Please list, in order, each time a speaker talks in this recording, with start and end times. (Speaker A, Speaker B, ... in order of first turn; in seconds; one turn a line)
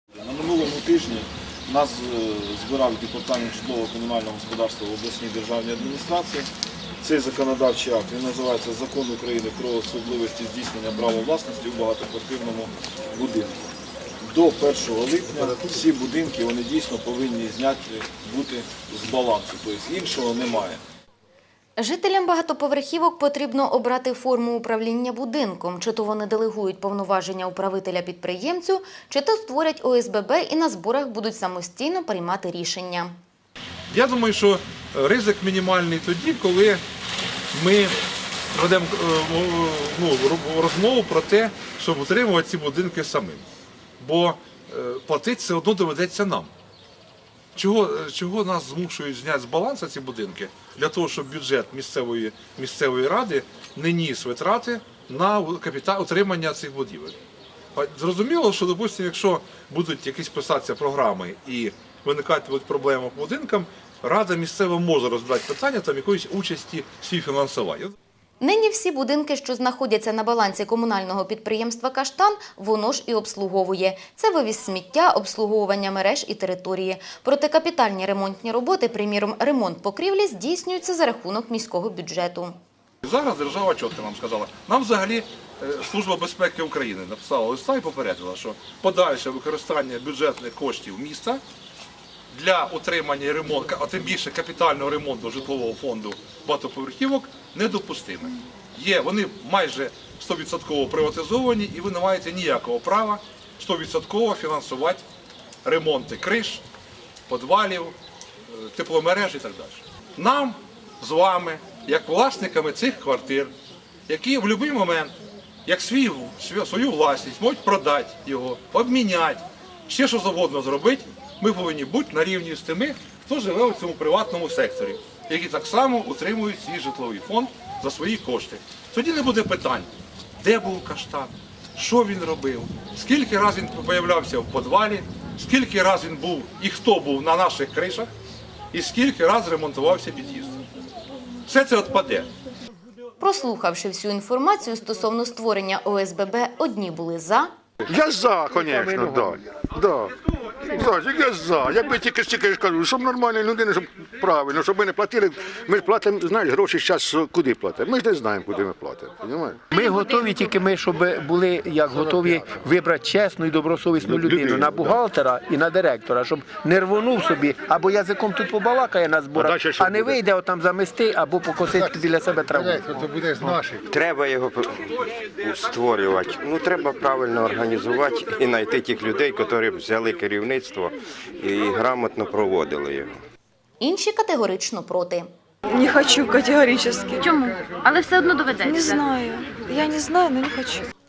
Speaker A: 0.2-6.5
Speaker A: 7.0-13.5
Speaker A: 14.2-20.8
Speaker B: 21.8-33.2
Speaker C: 33.9-36.8
Speaker C: 37.5-38.0
Speaker C: 38.5-43.4
Speaker C: 44.0-46.5
Speaker C: 47.5-57.1
Speaker C: 57.7-67.9
Speaker B: 68.4-82.6
Speaker C: 83.0-91.4
Speaker C: 92.3-105.0
Speaker C: 105.6-106.6
Speaker C: 107.3-107.9
Speaker C: 108.5-113.5
Speaker C: 114.1-115.1
Speaker C: 115.7-138.1
Speaker C: 138.7-140.6
Speaker C: 141.4-142.3
Speaker B: 143.2-147.5
Speaker D: 147.8-150.1
Speaker D: 150.6-159.6
Speaker E: 159.7-173.6
Speaker D: 164.1-165.0
Speaker D: 169.3-170.2
Speaker F: 173.8-183.2
Speaker B: 183.8-185.3
Speaker G: 185.7-187.3
Speaker B: 187.2-189.0
Speaker G: 188.7-190.9